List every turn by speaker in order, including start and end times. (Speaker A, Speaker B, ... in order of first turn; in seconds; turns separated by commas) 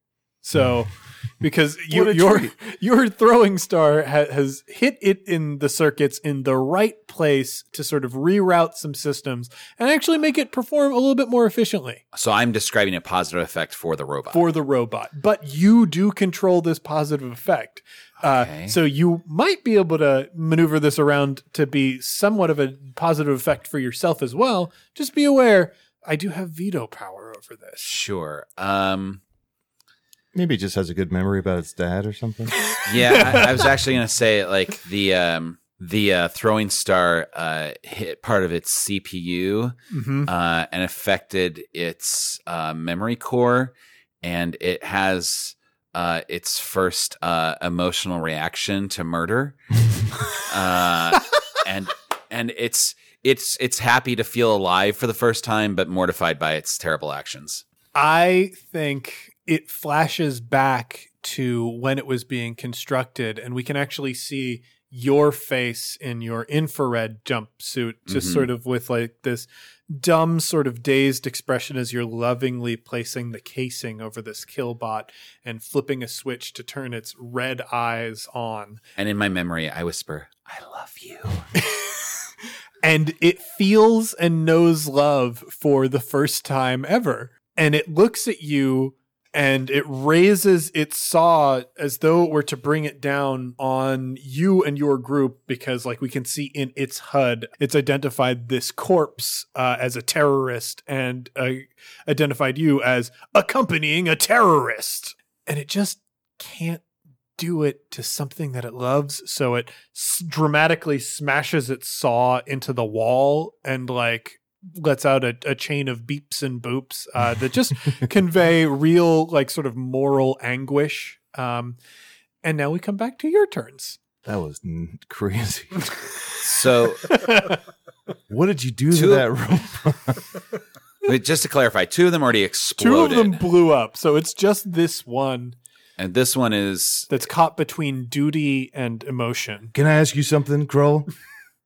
Speaker A: 0.4-12.0, Speaker B: 1.9-2.5, Speaker C: 12.1-14.4, Speaker A: 14.3-28.0, Speaker C: 18.2-18.8, Speaker C: 27.8-29.2, Speaker B: 30.3-32.5, Speaker A: 32.6-33.7, Speaker C: 32.8-39.7, Speaker A: 39.9-40.3, Speaker C: 40.2-49.6, Speaker C: 50.3-57.6, Speaker A: 57.9-78.8, Speaker C: 68.1-68.5, Speaker C: 79.0-81.5, Speaker A: 81.6-82.0, Speaker A: 82.8-106.8, Speaker A: 107.4-121.8, Speaker A: 122.4-124.0, Speaker B: 124.2-125.9, Speaker C: 126.3-127.2, Speaker A: 127.0-127.6, Speaker B: 128.3-130.2, Speaker C: 128.9-129.3, Speaker C: 131.0-133.4, Speaker A: 132.8-135.6, Speaker C: 136.0-137.1, Speaker A: 137.1-139.7, Speaker B: 139.7-141.1